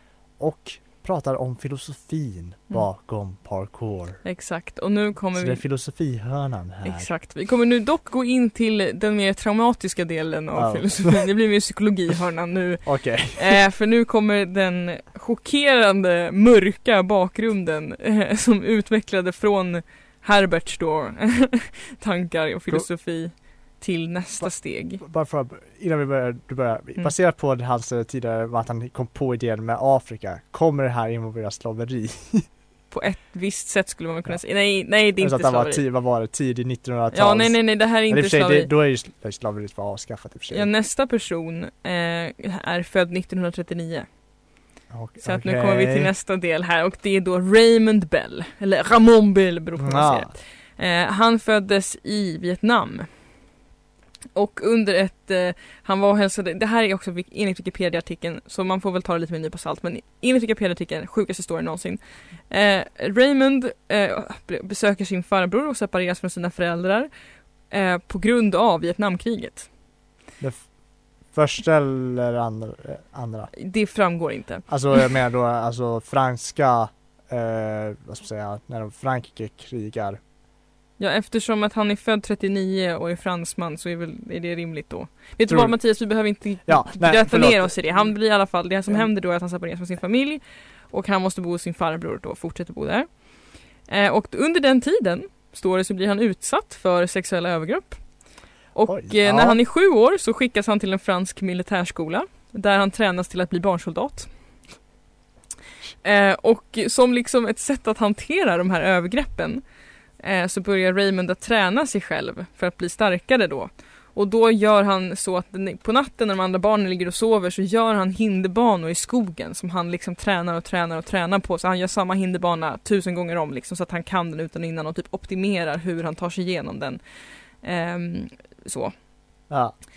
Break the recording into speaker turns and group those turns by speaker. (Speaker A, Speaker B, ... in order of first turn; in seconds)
Speaker A: 0.4-4.2, 5.3-7.1, 10.6-11.3, 12.8-13.6, 24.4-32.5, 34.3-40.7, 44.9-46.1, 49.8-50.3, 70.4-73.5, 74.7-80.2, 85.5-89.1, 98.9-99.6, 129.5-129.8
Speaker B: 4.2-5.6, 6.8-25.0, 32.9-35.8, 37.1-38.7, 40.5-44.1, 45.2-53.3, 54.4-67.1, 67.6-69.7, 73.6-75.1, 81.0-104.3, 106.0-128.9